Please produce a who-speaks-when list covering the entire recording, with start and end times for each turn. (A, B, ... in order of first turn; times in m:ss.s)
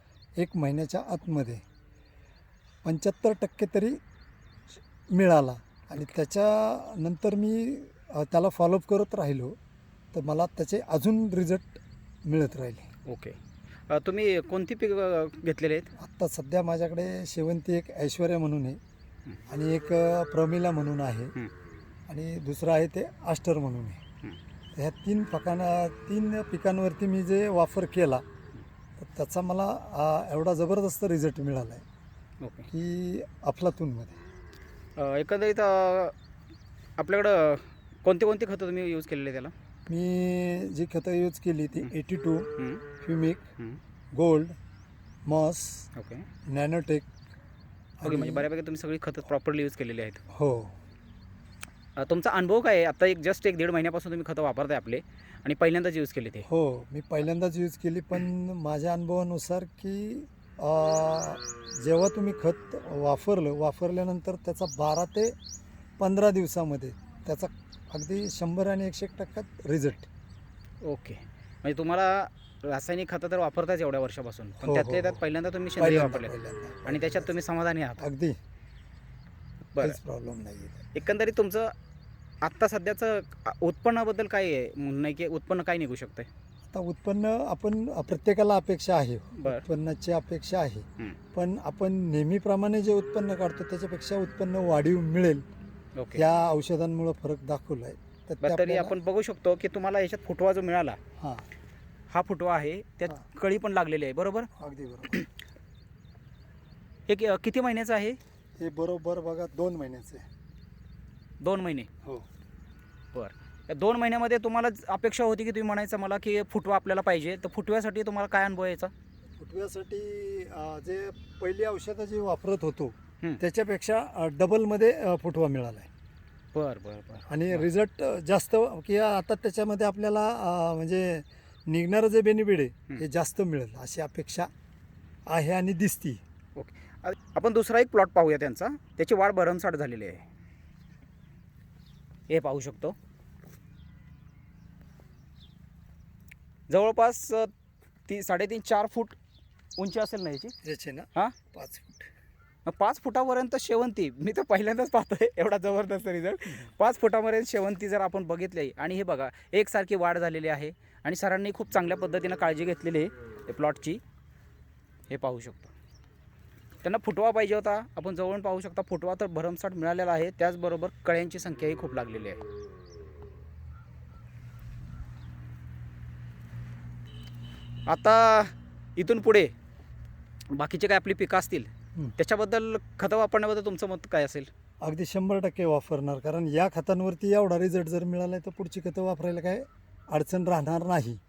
0:00.4-0:01.6 A
0:02.8-0:04.0 A
0:05.1-0:09.6 A
0:10.1-0:12.9 A
0:13.0-0:13.4 B
0:13.9-0:15.9 B
0:16.0-0:18.8 A
0:19.5-0:21.3 A
0:22.1-0:24.0 A
0:24.8-0:28.2 A
0:29.0-0:31.8 A
0:32.4-0:32.7 B
0:32.7-0:34.2 A
0:35.0-0:36.1 B
0:37.0-0:39.5 B
0:39.9-0:42.5 A
0:42.6-0:42.8 B
0:43.0-0:43.4 A
0:44.1-0:44.5 A
0:45.2-0:45.9 A
0:45.9-0:46.3 B
0:46.4-0:47.1 A
0:48.0-0:48.5 A
0:48.0-0:50.2 B
0:50.3-0:50.7 A
0:52.0-0:56.5 B
0:56.4-1:05.4 A
1:06.0-1:10.1 A
1:10.8-1:16.3 B
1:14.6-1:15.2 A
1:15.8-1:17.3 A
1:16.8-1:18.0 B
1:18.0-1:18.4 A
1:19.8-1:20.8 A
1:20.9-1:21.7 B
1:22.4-1:26.3 B
1:26.7-1:35.4 A
1:29.3-1:29.6 B
1:36.0-1:36.2 B
1:36.1-1:38.9 A
1:38.4-1:41.0 B
1:41.2-1:41.5 A
1:42.1-1:44.5 B
1:44.5-1:45.2 A
1:47.1-1:48.2 B
1:48.6-1:50.2 A
1:51.4-1:51.9 B
1:53.1-1:58.9 B
1:59.4-2:05.9 A
2:06.5-2:07.7 B
2:07.3-2:14.5 A
2:15.3-2:16.2 A
2:16.6-2:20.2 B
2:22.3-2:23.0 B
2:26.7-2:27.5 B
2:28.1-2:29.2 B
2:29.8-2:30.5 B
2:30.6-2:32.0 A
2:32.6-2:44.0 B
2:45.1-2:45.7 B
2:46.8-2:52.4 B
2:57.9-2:59.5 B
3:00.5-3:04.5 B
3:04.8-3:11.2 A